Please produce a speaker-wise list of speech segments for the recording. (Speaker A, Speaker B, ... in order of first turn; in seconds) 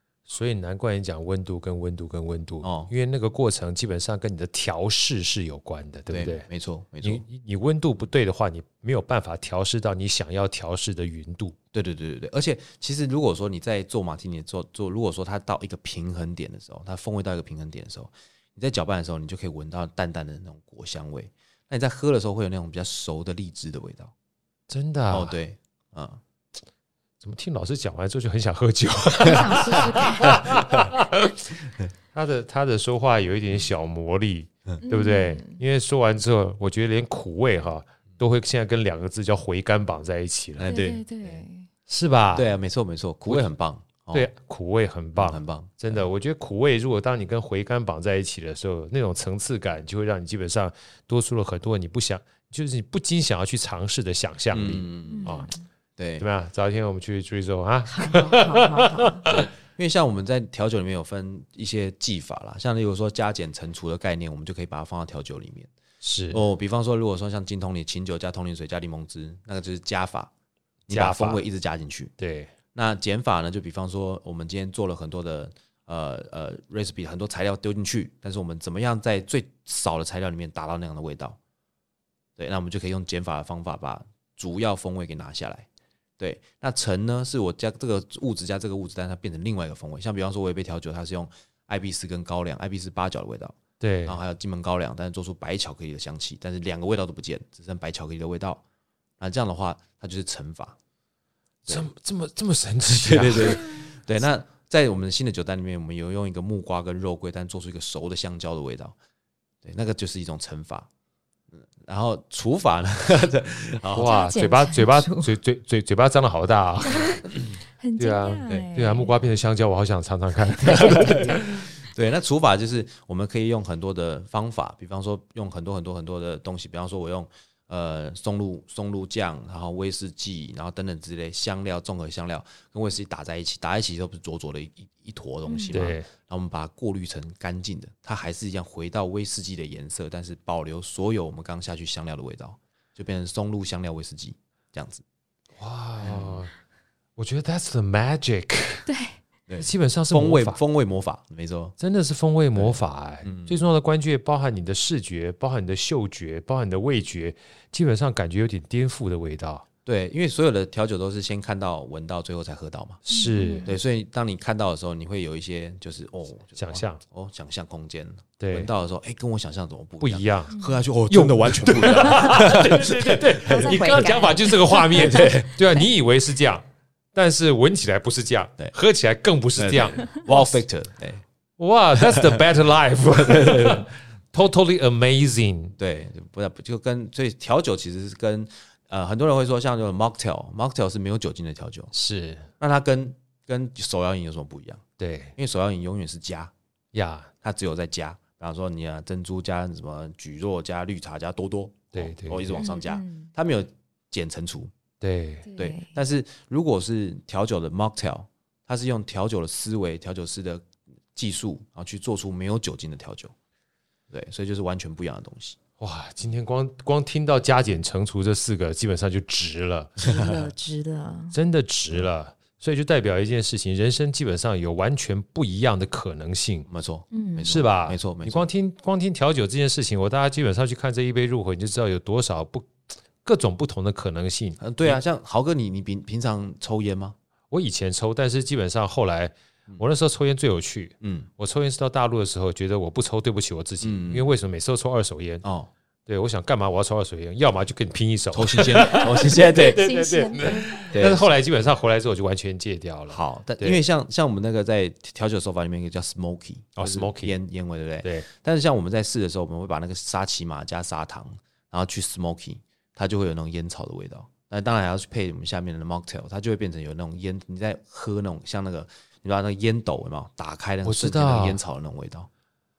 Speaker A: 0.3-6.5, 7.0-11.6, 24.7-25.4, 27.2-31.5, 32.1-40.7, 41.9-42.5, 44.1-55.5, 56.2-59.4, 66.0-66.4, 70.9-71.4, 72.2-72.5, 93.8-94.2, 101.7-103.8, 113.9-117.2, 118.0-121.4, 135.7-136.1, 145.6-146.5, 147.2-148.9, 149.6-150.6, 151.8-159.6, 163.1-163.7, 166.6-167.0, 168.4-168.7, 170.0-180.1, 181.6-185.8, 191.9-192.5, 195.0-195.3, 196.9-197.3, 201.9-202.7, 205.0-205.5, 215.8-220.0, 221.3-226.7, 227.4-235.0, 237.5-245.4, 246.1-253.8, 256.8-257.3, 258.0-258.3, 270.8-271.6
Speaker B: 2.6-2.9, 6.1-7.2, 11.7-24.1, 25.1-26.2, 29.3-30.9, 40.6-41.3, 42.3-44.3, 45.1-46.0, 54.5-55.4, 56.0-56.2, 59.3-65.7, 66.3-70.3, 70.9-72.1, 72.7-81.4, 82.4-85.7, 86.2-98.6, 99.2-100.8, 102.8-109.0, 109.6-110.9, 111.5-114.2, 120.8-145.0, 146.0-146.4, 149.5-151.7, 152.5-153.6, 159.8-163.0, 163.6-174.0, 174.9-175.6, 179.6-181.2, 182.0-182.4, 183.1-183.9, 185.8-191.9, 192.6-194.8, 195.4-196.5, 197.4-204.7, 205.6-213.3, 214.1-215.6, 220.0-220.4, 226.7-228.5, 234.6-237.2, 241.0-241.3, 243.8-244.3, 245.4-245.7, 248.3-249.8, 250.9-251.3, 253.1-272.3
Speaker C: 29.2-30.4, 34.8-35.6, 40.6-41.7, 55.1-55.6, 57.9-59.2, 114.0-115.3, 116.8-117.2, 117.8-119.1, 120.5-121.4, 135.4-135.8, 148.9-149.2, 163.1-163.8, 170.5-170.8, 172.0-175.8, 180.1-180.4, 202.6-203.3, 205.4-205.9, 220.0-221.3, 227.1-227.5, 248.8-250.9